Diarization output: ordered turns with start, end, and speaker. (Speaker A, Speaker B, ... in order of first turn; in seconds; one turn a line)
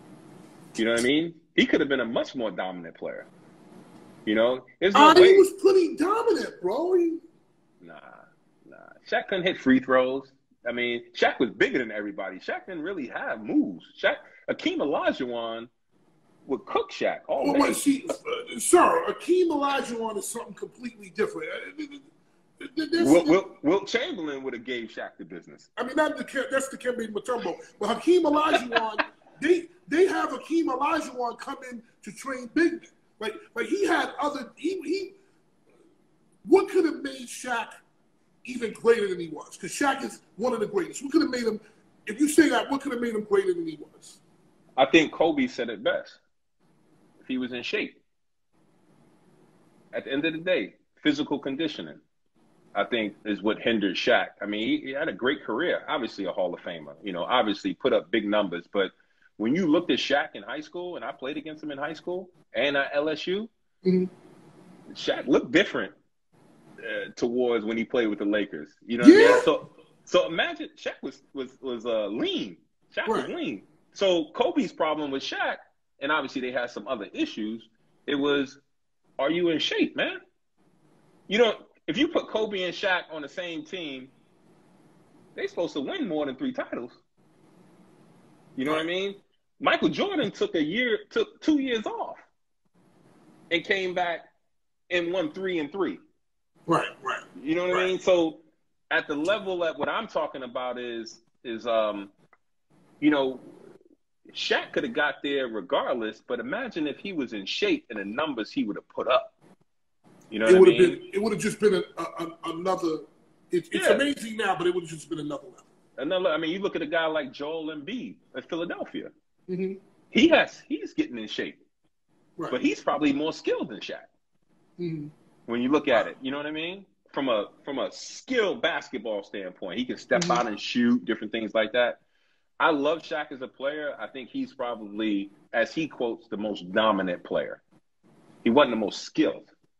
Speaker A: 0.8-3.3
Speaker A: 4.2-5.5
Speaker B: 4.9-7.2
Speaker A: 7.8-15.7
Speaker A: 16.4-17.8
Speaker B: 17.4-22.0
Speaker B: 22.6-23.4
Speaker A: 23.0-25.7
Speaker B: 25.8-35.1
Speaker A: 28.6-28.8
Speaker B: 36.4-37.7
Speaker B: 38.4-44.2
Speaker A: 44.8-46.2
Speaker A: 47.2-48.0
Speaker A: 49.9-52.0
Speaker A: 52.7-63.5
Speaker B: 63.8-64.1
Speaker A: 64.9-65.9
Speaker A: 66.8-78.6
Speaker B: 69.0-69.5
Speaker B: 73.0-73.3
Speaker A: 79.2-80.2
Speaker A: 81.3-84.1
Speaker A: 85.3-87.0
Speaker A: 88.5-92.2
Speaker A: 93.5-94.2
Speaker A: 94.9-96.0
Speaker B: 96.7-97.9
Speaker A: 97.3-102.1
Speaker A: 103.0-103.5
Speaker A: 104.3-109.3
Speaker A: 110.3-111.0
Speaker B: 110.5-115.7
Speaker A: 113.7-114.0
Speaker A: 116.0-119.1
Speaker B: 119.5-119.8
Speaker A: 120.1-121.6
Speaker A: 122.5-124.1
Speaker B: 124.8-125.1
Speaker A: 125.5-132.0
Speaker B: 130.1-130.4
Speaker A: 132.6-137.6
Speaker A: 138.4-139.5